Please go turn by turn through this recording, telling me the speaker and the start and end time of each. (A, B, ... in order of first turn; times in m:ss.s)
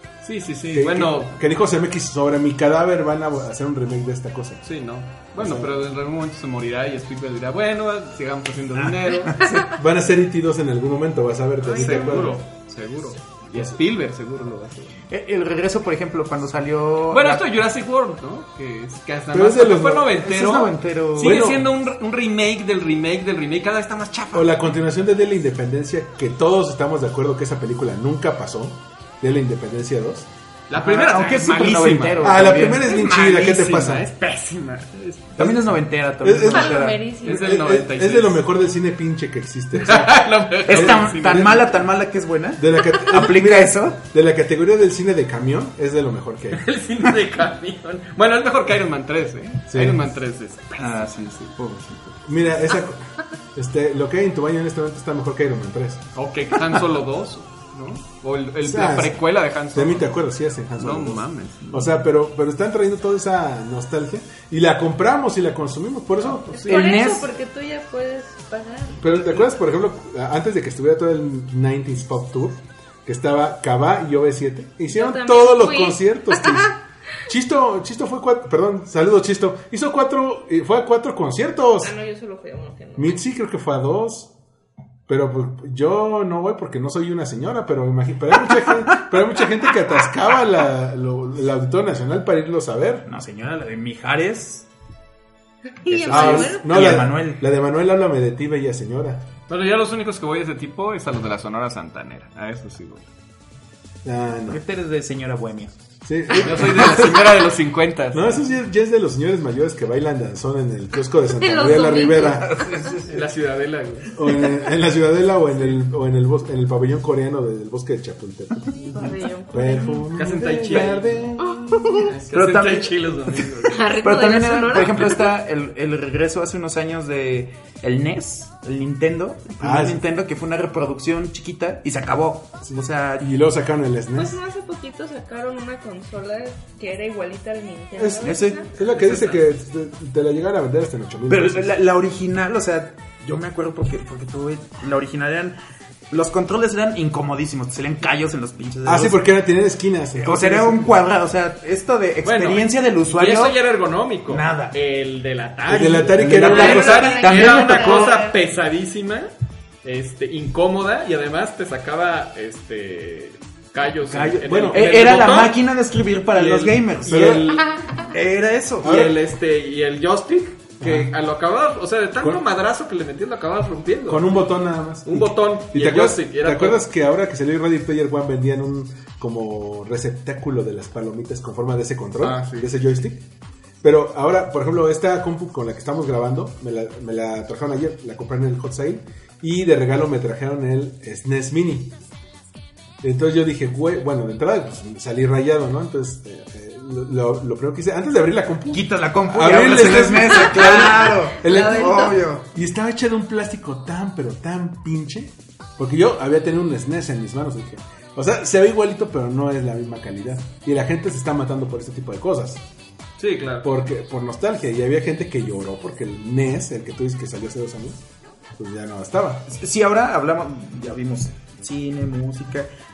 0:00.2-0:01.4 A
0:00.7-0:04.6 B
0:04.6-0:09.4 A
0:05.4-0:05.8 B
0:08.8-0:09.6 C
0:09.6-0:12.4 B
0:11.6-0:15.1 A
0:15.1-0:17.4 C
0:17.1-0:24.7 A
0:19.3-0:20.1 B
0:20.2-0:21.4 C
0:21.2-0:21.7 B
0:24.3-0:30.3 B
0:30.7-0:35.7 A
0:30.8-0:32.8 C
0:32.2-0:34.1 B
0:35.4-0:37.0 C
0:36.2-0:41.7 B
0:36.5-0:37.4 D
0:37.2-0:38.4 A
0:39.7-0:41.8 A
0:40.6-0:44.0 C
0:42.6-0:46.6 B
0:46.5-0:51.1 A
0:49.7-0:50.1 B
0:50.8-0:52.2 C
0:52.2-0:56.1 B
0:56.1-1:00.1 A
0:58.6-1:07.0 B
1:00.8-1:01.6 A
1:06.2-1:06.5 A
1:06.5-1:09.4 D
1:06.7-1:07.3 C
1:09.0-1:21.9 B
1:14.9-1:16.7 D
1:21.8-1:23.2 D
1:23.0-1:24.3 B
1:25.1-1:33.0 B
1:33.1-1:34.7 C
1:35.8-1:36.8 D
1:35.8-1:37.4 C
1:36.1-1:39.3 B
1:39.5-1:43.1 A
1:44.0-1:44.6 B
1:44.5-1:45.7 C
1:46.0-1:47.2 B
1:46.4-1:48.4 A
1:48.1-1:52.7 B
1:51.3-1:52.9 D
1:52.2-1:53.2 C
1:53.1-1:54.2 A
1:54.1-2:02.0 B
1:55.5-1:55.8 A
1:58.9-2:00.1 D
2:00.1-2:01.3 A
2:01.4-2:02.1 D
2:02.0-2:03.8 A
2:02.3-2:13.3 C
2:03.6-2:05.3 D
2:09.6-2:10.0 B
2:12.6-2:14.4 B
2:14.1-2:18.7 D
2:18.0-2:21.7 B
2:18.2-2:18.6 C
2:18.8-2:19.4 A
2:21.3-2:25.6 C
2:26.1-2:29.2 C
2:28.8-2:31.0 B
2:30.2-2:33.6 C
2:32.2-2:39.3 A
2:34.3-2:34.7 C
2:35.7-2:37.0 B
2:36.1-2:38.2 C
2:36.5-2:38.4 D
2:39.8-2:45.6 A
2:44.1-2:47.3 C
2:44.4-2:45.1 B
2:46.3-2:48.0 A
2:47.0-2:47.6 B
2:48.0-2:48.9 C
2:48.8-2:54.3 A
2:48.8-2:49.2 B
2:50.8-2:51.1 B
2:54.1-3:03.2 B
2:55.0-2:56.8 A
3:02.2-3:02.7 A
3:03.8-3:12.0 B
3:13.0-3:32.6 B
3:18.7-3:22.4 C
3:21.0-3:22.2 D
3:33.2-3:33.7 A
3:33.6-3:38.0 B
3:38.6-3:39.4 B
3:39.5-3:42.7 C